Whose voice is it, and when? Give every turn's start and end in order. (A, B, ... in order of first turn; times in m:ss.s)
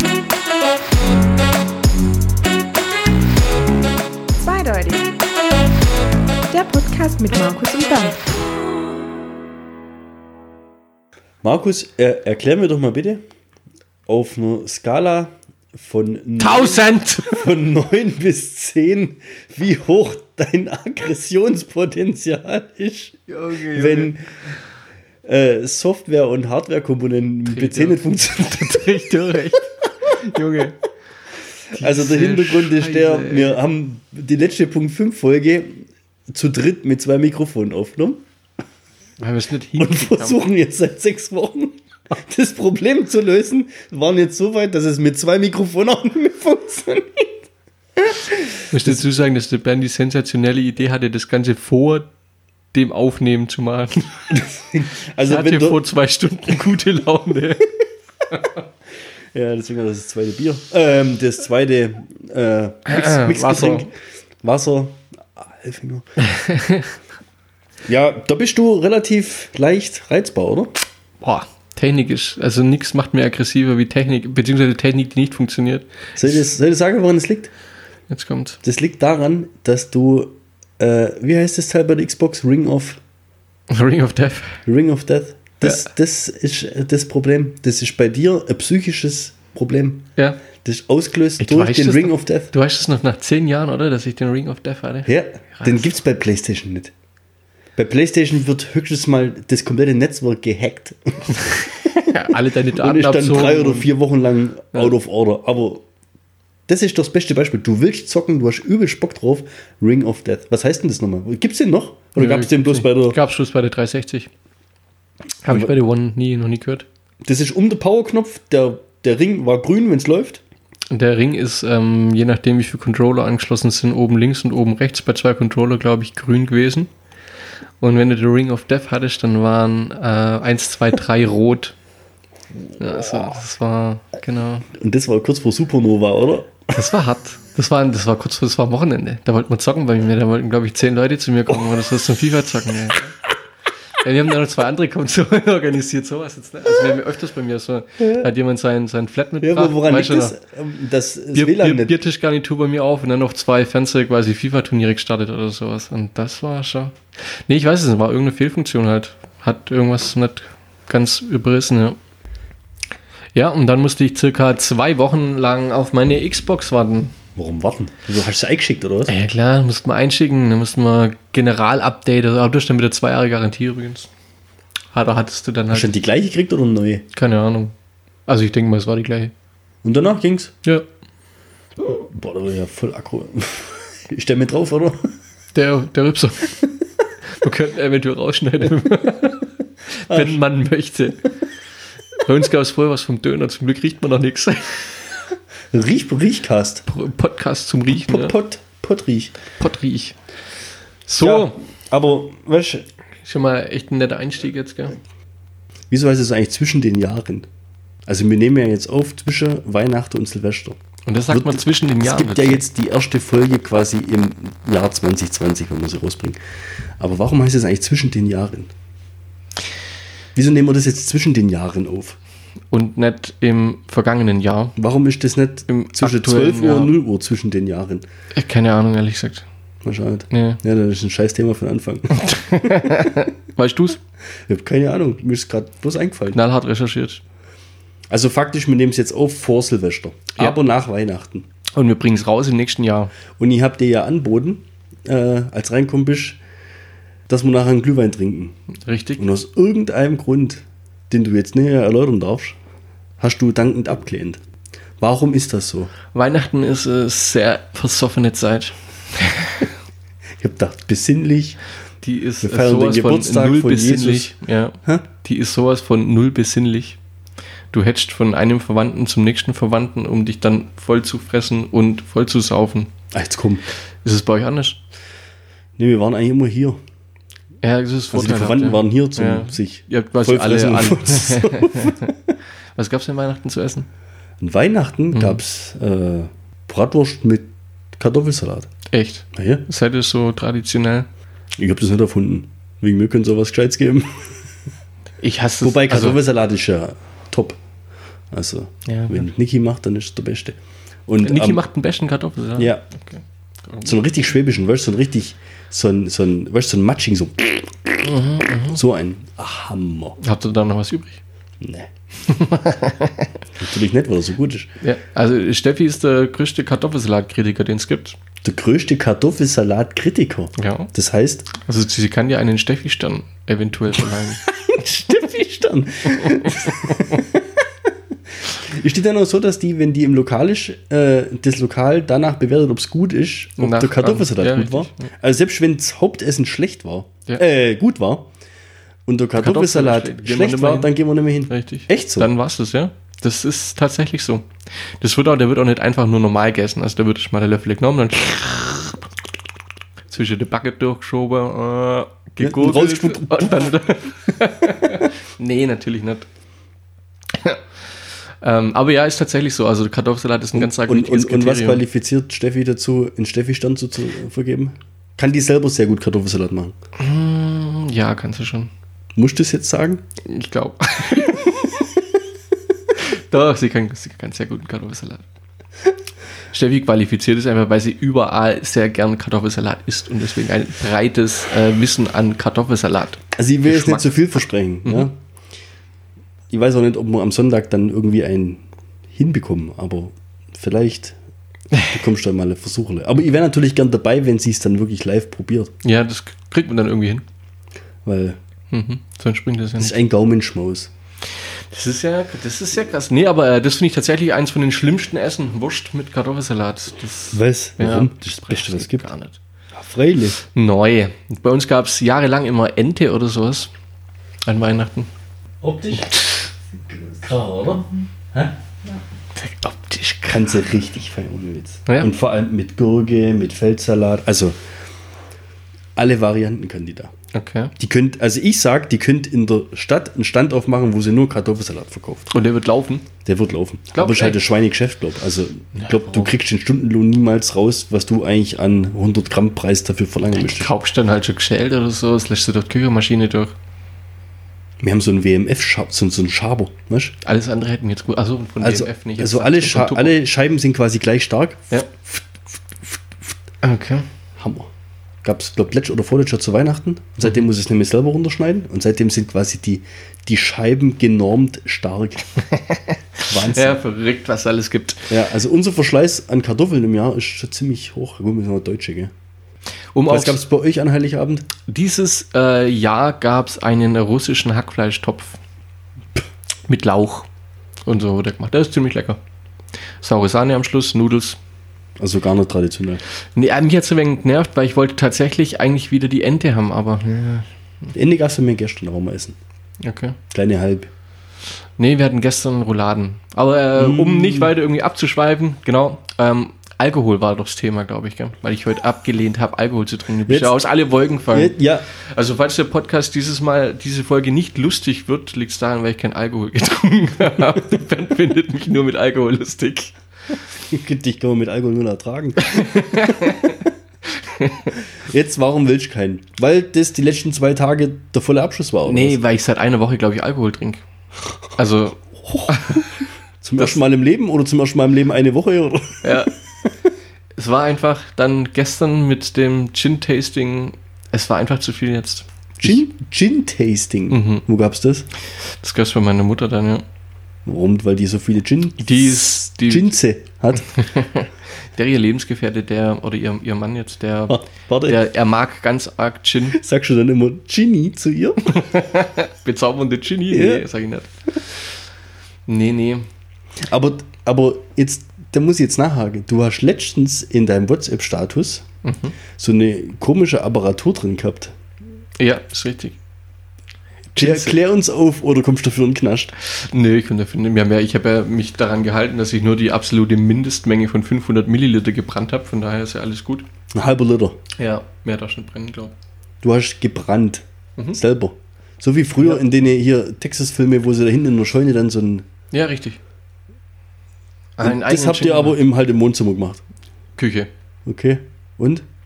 0:04.4-0:05.2 A
0:06.5-0:08.2 A
0:11.4-0:13.2 B
0:14.0-0:24.2 B
0:16.4-0:17.5 C
0:23.3-0:24.1 C
0:25.2-0:29.2 B
0:27.4-0:30.8 C
0:31.7-0:33.6 C
0:31.7-0:38.2 B
0:39.2-0:40.4 C
0:39.8-0:47.3 B
0:48.0-0:49.0 B
0:48.7-0:52.1 C
0:52.7-0:54.2 C
0:54.3-0:55.8 B
0:55.2-0:57.7 C
0:58.3-0:58.6 C
0:59.3-1:06.0 B
1:02.9-1:03.9 C
1:06.2-1:06.9 C
1:07.8-1:10.7 B
1:11.2-1:16.1 C
1:16.1-1:17.5 B
1:18.1-1:18.6 C
1:18.6-1:23.0 B
1:23.7-1:24.6 C
1:24.6-1:32.5 B
1:31.4-1:35.9 C
1:35.0-1:36.9 B
1:37.8-1:45.8 B
1:41.4-1:43.9 C
1:46.7-1:53.2 B
1:52.2-1:54.3 C
1:55.4-1:56.9 C
1:57.2-2:00.4 B
2:00.9-2:06.9 C
2:07.8-2:11.8 C
2:12.8-2:14.7 C
2:13.0-2:13.3 B
2:14.7-2:16.6 B
2:16.7-2:23.2 C
2:24.0-2:30.3 C
2:29.4-2:32.0 B
2:31.3-2:37.0 C
2:37.5-2:42.0 C
2:43.3-2:47.1 C
2:47.4-2:49.1 B
2:49.1-2:54.1 C
2:54.9-2:56.0 C
2:55.7-2:57.0 B
2:57.1-2:57.7 C
2:58.3-2:59.3 C
2:59.8-3:00.6 B
3:01.8-3:05.1 B
3:05.5-3:06.7 C
3:07.4-3:11.3 C
3:10.1-3:10.4 B
3:12.2-3:15.0 C
3:15.7-3:16.8 B
3:16.8-3:18.3 C
3:17.9-3:19.3 B
3:19.6-3:20.2 C
3:21.1-3:21.6 C
3:21.2-3:22.8 B
3:23.2-3:25.0 C
3:25.9-3:27.5 B
3:28.0-3:30.8 B
3:31.1-3:32.6 C
3:31.3-3:36.4 B
3:37.0-3:38.7 B
3:40.4-3:42.2 B
3:42.7-3:44.8 C
3:44.8-3:48.0 B
3:45.7-3:46.9 C
3:48.3-3:49.4 C
3:49.8-3:52.2 B
3:50.3-3:50.6 C
3:52.2-3:54.0 C
3:54.5-3:56.4 B
3:56.3-3:57.2 C
3:58.1-4:01.4 B
4:01.8-4:03.1 C
4:03.4-4:06.4 B
4:07.3-4:08.5 B
4:08.8-4:09.2 C
4:09.2-4:12.6 B
4:13.2-4:14.4 B
4:15.0-4:15.9 B
4:16.1-4:19.7 C
4:20.4-4:21.6 B
4:22.0-4:27.0 C
4:22.4-4:25.0 B
4:27.7-4:32.9 C
4:33.1-4:33.7 B
4:34.0-4:34.8 C
4:35.8-4:36.8 B
4:37.6-4:42.1 C
4:38.1-4:42.3 B
4:42.8-4:43.9 C
4:44.4-4:48.7 B
4:45.1-4:45.4 C
4:48.9-4:51.1 C
4:49.3-4:49.6 B
4:51.6-4:54.3 B
4:55.2-4:56.2 C
4:55.6-4:57.6 B
4:58.3-5:01.6 B
4:58.8-4:59.2 C
5:01.2-5:03.9 C
5:02.6-5:02.8 B
5:03.8-5:08.1 B
5:08.0-5:08.8 C
5:08.7-5:10.2 B
5:10.2-5:11.2 C
5:11.6-5:11.9 B
5:12.2-5:13.3 C
5:13.6-5:14.7 B
5:14.8-5:18.2 C
5:18.4-5:21.5 B
5:20.6-5:20.9 C
5:21.5-5:24.4 C
5:24.5-5:27.6 B
5:26.2-5:27.2 C
5:28.4-5:38.3 B
5:33.6-5:35.1 C
5:39.1-5:42.3 B
5:39.4-5:41.0 C
5:41.5-5:44.5 C
5:45.0-5:49.0 C
5:50.1-5:56.2 C
5:52.4-5:53.7 B
5:57.3-5:57.6 C
5:58.4-6:01.8 C
6:00.6-6:06.7 B
6:07.0-6:08.7 C
6:09.2-6:10.0 B
6:10.2-6:11.8 C
6:12.9-6:15.2 C
6:16.5-6:25.1 C
6:23.4-6:25.2 B
6:26.5-6:31.2 B
6:31.8-6:35.7 B
6:35.8-6:37.2 C
6:38.0-6:38.4 B
6:38.7-6:39.9 C
6:39.8-6:40.9 B
6:41.7-6:49.4 C
6:47.3-6:49.1 B
6:49.7-6:50.4 B
6:50.4-6:53.7 C
6:54.4-6:55.1 C
6:55.6-6:56.2 B
6:56.7-6:58.6 B
6:59.4-7:00.5 C
7:00.3-7:04.6 B
7:06.0-7:07.1 B
7:07.3-7:07.7 C
7:07.8-7:12.3 B
7:12.3-7:13.1 C
7:13.2-7:20.7 B
7:13.9-7:14.4 C
7:15.8-7:16.3 C
7:20.3-7:23.5 C
7:24.8-7:27.2 B
7:27.2-7:30.2 C
7:28.6-7:33.3 B
7:33.6-7:34.0 C
7:34.4-7:34.7 B
7:35.2-7:42.2 B
7:42.5-7:45.1 C
7:43.3-7:43.8 B
7:45.1-7:49.1 B
7:49.9-7:50.4 C
7:50.1-7:51.5 B
7:51.7-7:55.4 C
7:56.7-7:57.3 C
7:57.8-7:59.2 C
8:00.0-8:01.4 C
8:02.0-8:03.0 B
8:03.4-8:07.9 C
8:07.9-8:09.4 B
8:09.8-8:10.2 C
8:10.3-8:10.9 B
8:11.8-8:29.9 C
8:13.8-8:14.5 B
8:20.2-8:20.6 B
8:21.3-8:21.8 B
8:30.6-8:33.7 B
8:32.4-8:34.8 C
8:35.0-8:39.2 B
8:38.8-8:40.8 C
8:41.6-8:42.9 C
8:42.2-8:42.8 B
8:43.4-8:46.7 B
8:46.0-8:46.3 C
8:47.4-8:52.8 C
8:52.6-8:55.1 B
8:54.1-8:54.4 C
8:55.4-8:56.8 C
8:57.4-9:00.8 B
8:58.8-8:59.9 C
9:00.7-9:06.6 C
9:04.3-9:05.0 B
9:06.5-9:08.6 B
9:08.4-9:11.1 C
9:10.3-9:10.6 B
9:12.5-9:13.1 C
9:13.6-9:18.6 B
9:18.8-9:19.1 C
9:19.4-9:21.5 B
9:22.2-9:23.0 C
9:24.1-9:24.6 C
9:24.2-9:26.3 B
9:26.4-9:33.4 C
9:33.7-9:34.4 B
9:34.6-9:35.9 C
9:36.4-9:42.2 B
9:42.5-9:43.0 C
9:44.6-9:45.6 C
9:44.6-9:46.6 B
9:47.2-9:47.5 C
9:47.8-9:48.8 B